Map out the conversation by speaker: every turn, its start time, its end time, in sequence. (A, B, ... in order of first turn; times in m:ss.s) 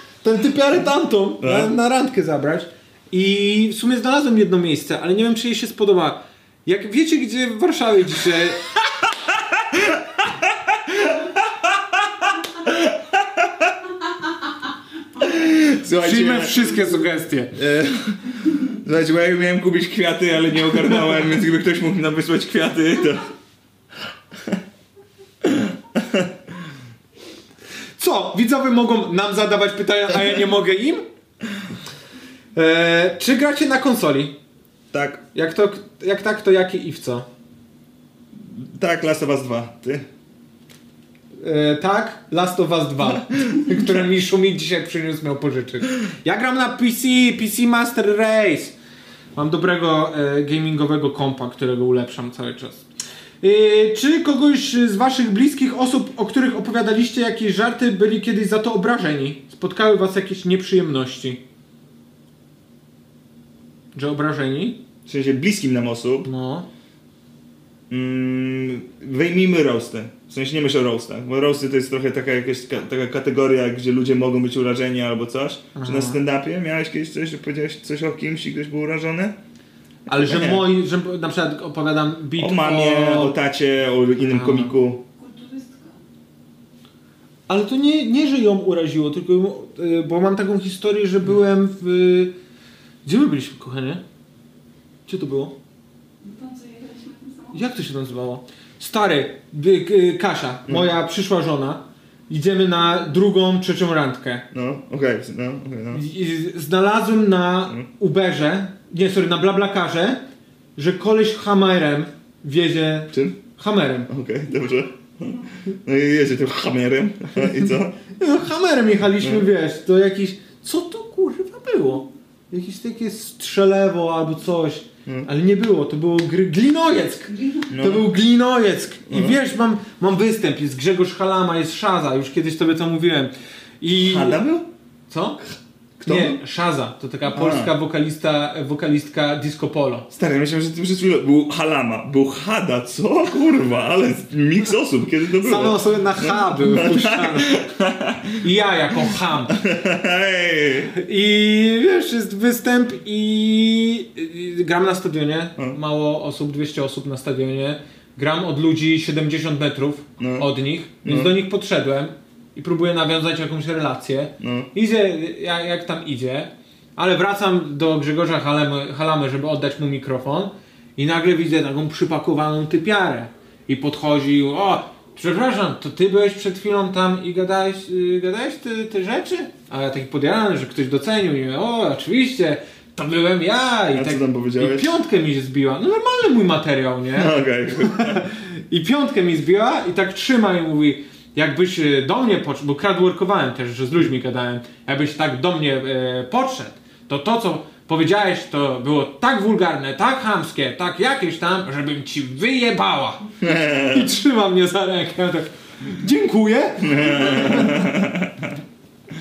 0:00.2-0:08.7 A
0:01.4-0:01.7 B
0:09.6-0:13.7 B
0:15.2-0:16.7 B
0:16.0-0:17.6 A
0:17.6-0:23.3 B
0:25.4-0:26.4 B
0:28.0-0:31.0 A
0:32.6-0:34.4 A
0:34.9-0:35.2 B
0:35.3-0:37.3 A
0:38.4-0:40.1 B
0:41.4-0:48.8 A
0:49.4-0:52.8 A
0:53.4-1:01.4 A
1:04.0-1:04.8 A
1:05.1-1:06.3 B
1:06.2-1:06.7 A
1:07.9-1:19.4 B
1:15.8-1:16.2 A
1:20.1-1:20.7 B
1:20.1-1:23.4 A
1:22.4-1:25.0 B
1:24.3-1:24.7 A
1:25.2-1:26.0 C
1:27.5-1:32.3 A
1:33.0-1:34.0 A
1:35.1-1:35.5 A
1:36.2-1:37.6 C
1:37.5-1:44.5 A
1:44.5-1:46.0 B
1:45.9-1:50.2 A
1:50.8-1:54.1 A
1:53.1-1:53.4 B
1:54.1-1:58.0 B
1:58.2-2:14.4 A
2:07.7-2:08.0 B
2:09.1-2:09.4 B
2:14.0-2:14.7 B
2:15.1-2:15.4 A
2:16.0-2:16.4 B
2:16.0-2:20.1 A
2:17.3-2:17.7 B
2:20.1-2:28.4 B
2:25.4-2:27.6 A
2:28.4-2:29.6 A
2:29.5-2:30.9 B
2:30.9-3:23.2 A
2:40.2-2:40.5 B
2:41.0-2:41.4 B
2:44.4-2:44.7 B
3:03.9-3:04.9 B
3:07.2-3:08.3 B
3:23.4-3:24.1 B
3:23.8-3:27.9 A
3:26.8-3:28.6 B